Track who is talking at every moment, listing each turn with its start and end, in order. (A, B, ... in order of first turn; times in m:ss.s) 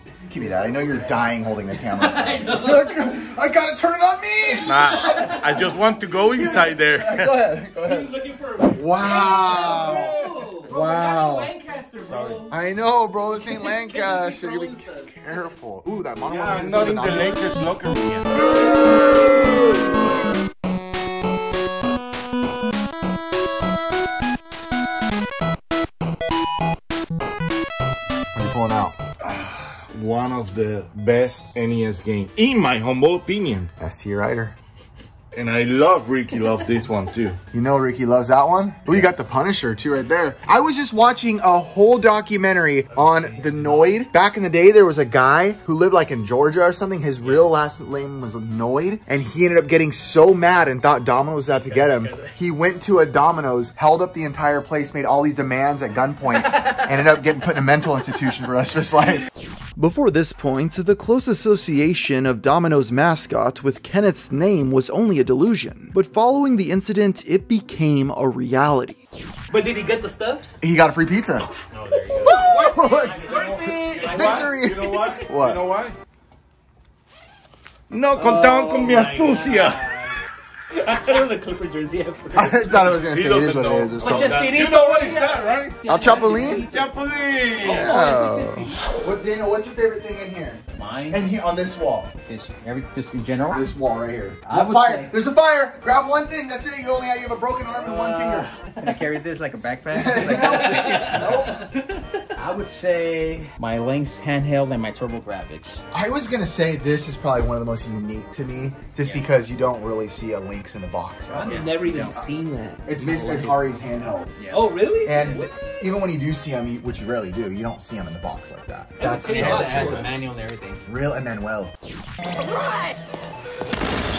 0:00.3-0:05.6 A
0:00.6-0:01.4 B
0:01.7-0:03.3 C
0:04.4-0:06.6 C
0:04.6-0:07.5 D
0:06.2-0:08.1 A
0:07.6-0:12.6 C
0:08.7-0:11.5 A
0:12.0-0:12.4 D
0:12.5-0:17.5 A
0:13.1-0:15.1 C
0:16.2-0:18.6 D
0:28.3-0:29.0 A
0:29.2-0:33.7 D
0:33.8-0:34.6 A
0:35.3-0:37.4 D
0:37.5-0:59.2 A
0:42.9-0:44.0 B
0:47.2-0:47.5 B
0:51.7-0:52.3 B
0:59.8-1:09.0 A
1:09.5-1:10.5 C
1:10.6-1:11.5 A
1:11.7-1:13.4 B
1:12.2-1:13.2 A
1:12.3-1:15.2 C
1:13.0-1:16.0 D
1:14.0-1:14.3 B
1:14.0-1:15.6 A
1:17.9-1:19.9 D
1:18.2-1:20.1 B
1:20.7-1:23.0 C
1:22.4-1:24.4 A
1:22.8-1:28.1 D
1:24.0-1:26.9 C
1:25.9-1:26.7 A
1:27.5-1:28.9 C
1:27.6-1:32.1 A
1:30.8-1:31.2 B
1:32.3-1:33.7 B
1:33.5-1:38.5 A
1:34.4-1:35.2 B
1:37.8-1:41.4 B
1:39.9-1:41.6 A
1:40.7-1:41.3 C
1:42.4-1:45.8 B
1:45.9-1:51.6 A
1:49.0-1:49.3 B
1:51.3-1:52.2 B
1:51.4-1:53.7 C
1:52.8-1:54.3 A
1:54.4-1:54.8 B
1:54.5-1:55.5 C
1:55.0-2:00.0 A
1:59.0-2:00.1 C
1:59.0-2:00.8 B
2:00.9-2:01.7 A
2:02.4-2:02.9 C